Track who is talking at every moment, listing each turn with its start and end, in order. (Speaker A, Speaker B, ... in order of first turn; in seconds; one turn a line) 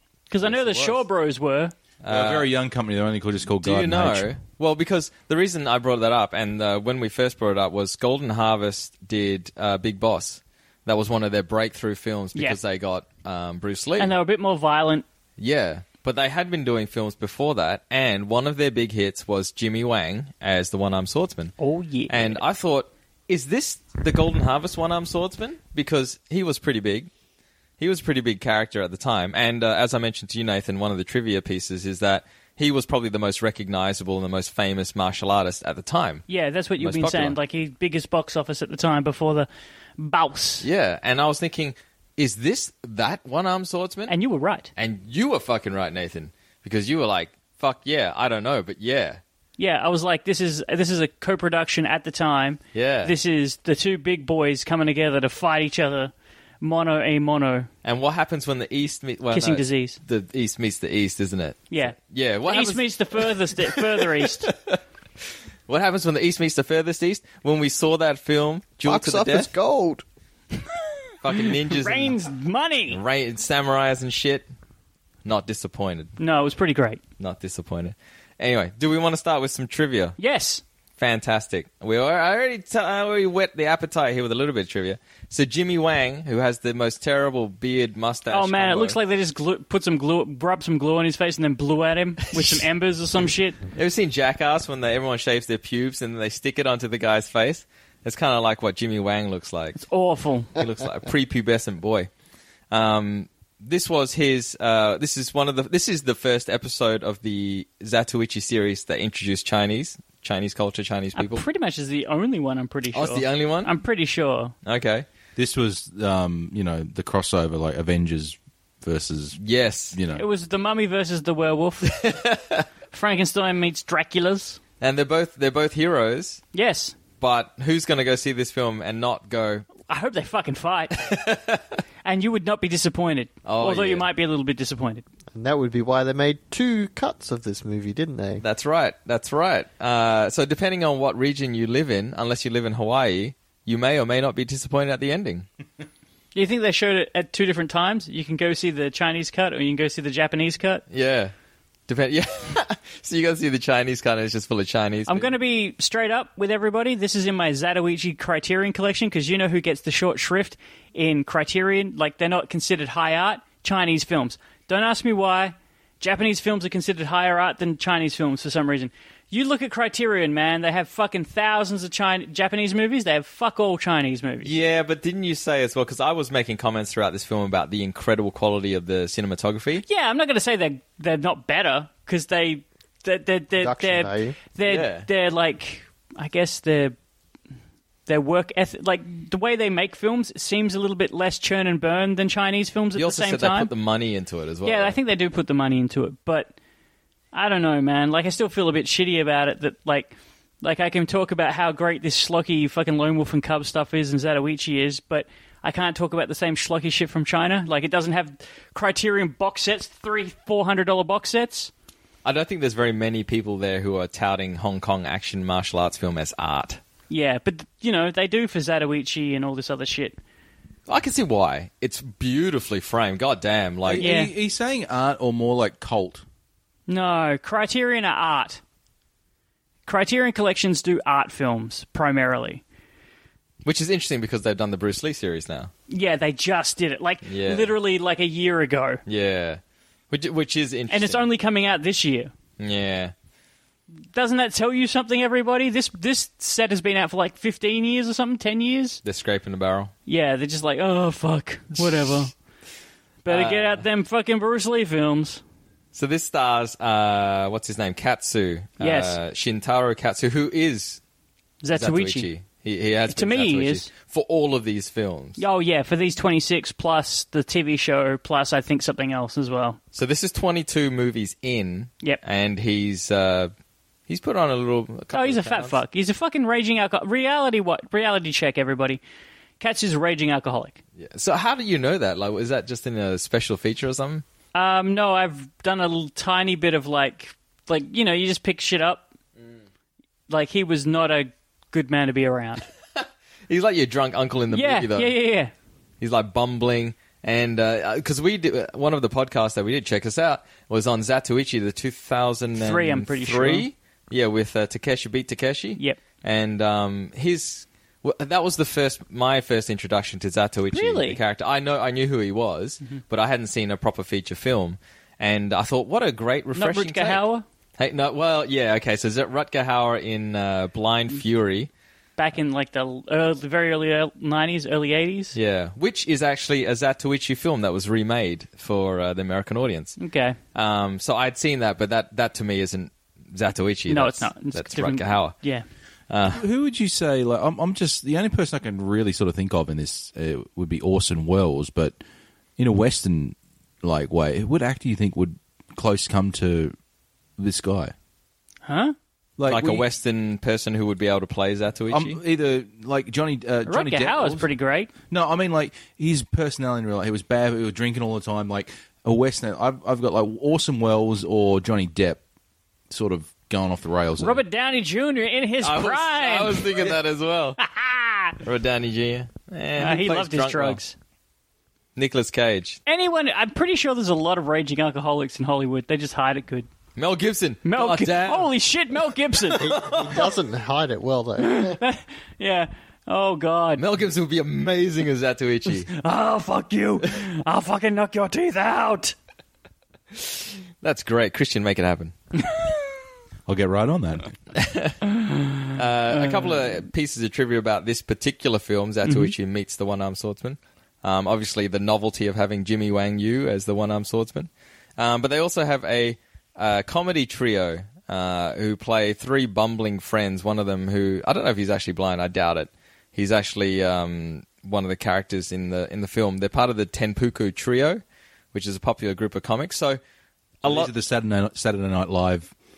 Speaker A: 0.3-1.7
Speaker B: 0.4-1.0
Speaker B: 2.0-2.5
Speaker C: 2.1-4.3
Speaker B: 3.6-14.2
Speaker A: 14.0-15.0
Speaker B: 15.4-21.5
Speaker A: 21.6-22.4
Speaker B: 22.1-27.1
Speaker B: 27.8-36.2
Speaker A: 36.3-40.6
Speaker B: 36.8-37.4
Speaker B: 40.6-44.1
Speaker A: 44.1-44.7
Speaker B: 44.8-49.2
Speaker A: 49.6-57.7
Speaker B: 52.7-53.1
Speaker B: 57.8-64.8
Speaker A: 59.3-60.0
Speaker A: 61.7-62.0
Speaker A: 62.5-64.5
Speaker B: 65.7-69.5
Speaker D: 68.8-70.0
Speaker B: 71.2-72.2
Speaker A: 71.7-73.0
Speaker B: 72.9-74.5
Speaker B: 75.2-76.1
Speaker A: 76.2-77.0
Speaker B: 77.2-80.2
Speaker A: 80.2-80.6
Speaker B: 81.0-89.0
Speaker A: 88.3-93.6
Speaker B: 92.3-92.6
Speaker B: 93.7-99.8
Speaker A: 99.8-100.5
Speaker B: 100.6-102.1
Speaker B: 102.7-111.4
Speaker A: 111.2-114.5
Speaker B: 112.9-113.7
Speaker B: 114.6-115.0
Speaker C: 115.3-119.4
Speaker B: 119.4-120.0
Speaker C: 119.9-120.2
Speaker A: 120.1-121.9
Speaker B: 121.8-122.7
Speaker A: 122.9-124.6
Speaker B: 124.8-126.4
Speaker A: 126.5-126.9
Speaker B: 127.2-129.7
Speaker A: 129.9-131.0
Speaker B: 130.9-131.8
Speaker A: 132.0-135.0
Speaker B: 133.4-134.1
Speaker D: 135.3-138.4
Speaker B: 138.4-145.4
Speaker A: 146.3-150.8
Speaker B: 150.9-151.3
Speaker B: 151.9-155.3
Speaker A: 155.1-174.5
Speaker B: 174.4-179.8
Speaker A: 179.8-186.9
Speaker D: 183.6-184.4
Speaker B: 184.6-185.1
Speaker A: 188.1-193.7
Speaker B: 192.9-195.0
Speaker A: 194.6-196.5
Speaker A: 197.3-211.7
Speaker B: 212.2-216.8
Speaker A: 217.1-220.2
Speaker B: 220.9-224.1
Speaker C: 223.8-226.2
Speaker A: 224.0-224.3
Speaker A: 226.9-228.6
Speaker A: 229.9-232.6
Speaker B: 233.6-235.7
Speaker A: 235.9-239.0
Speaker B: 237.2-237.8
Speaker B: 239.1-241.3
Speaker A: 240.9-242.3
Speaker B: 242.6-243.1
Speaker A: 244.1-249.0
Speaker B: 249.0-249.9
Speaker A: 250.1-252.3
Speaker B: 251.8-252.2
Speaker A: 253.2-255.4
Speaker B: 253.3-253.8
Speaker B: 255.9-261.0
Speaker A: 258.8-259.2
Speaker A: 261.6-262.3
Speaker B: 261.8-265.4
Speaker A: 263.1-263.9
Speaker A: 265.4-269.8
Speaker B: 269.9-273.5
Speaker B: 274.1-275.8
Speaker A: 275.1-279.0
Speaker A: 279.6-280.8
Speaker B: 281.0-284.2
Speaker A: 284.5-289.1
Speaker A: 290.3-292.7
Speaker B: 293.0-295.2
Speaker A: 294.5-295.5
Speaker B: 296.0-317.2
Speaker A: 302.6-303.6
Speaker A: 310.7-311.2
Speaker A: 316.5-317.4
Speaker B: 317.8-321.7
Speaker A: 322.2-325.3
Speaker B: 325.3-330.0
Speaker A: 330.0-330.4
Speaker B: 330.5-335.4
Speaker A: 333.9-335.6
Speaker B: 336.1-336.4
Speaker C: 336.3-342.0
Speaker C: 342.6-346.8
Speaker C: 347.4-347.9
Speaker A: 348.7-348.9
Speaker C: 349.4-349.8
Speaker B: 349.5-352.2
Speaker C: 351.9-354.4
Speaker A: 353.6-354.9
Speaker C: 355.1-362.2
Speaker C: 362.9-364.4
Speaker A: 364.2-366.7
Speaker B: 365.6-367.6
Speaker A: 367.6-368.3
Speaker B: 368.4-370.8
Speaker A: 369.8-370.9
Speaker B: 371.9-372.8
Speaker A: 372.9-376.7
Speaker B: 376.9-378.5
Speaker A: 377.6-379.6
Speaker B: 379.5-380.3
Speaker D: 379.6-381.8
Speaker A: 381.4-383.8
Speaker B: 383.8-385.9
Speaker A: 385.9-389.1
Speaker B: 390.2-392.1
Speaker A: 392.4-392.7
Speaker C: 393.5-394.3
Speaker B: 394.5-395.0
Speaker A: 395.1-396.8
Speaker B: 395.7-418.0
Speaker A: 399.0-399.3
Speaker B: 418.5-420.0
Speaker B: 420.6-420.9
Speaker C: 420.6-422.5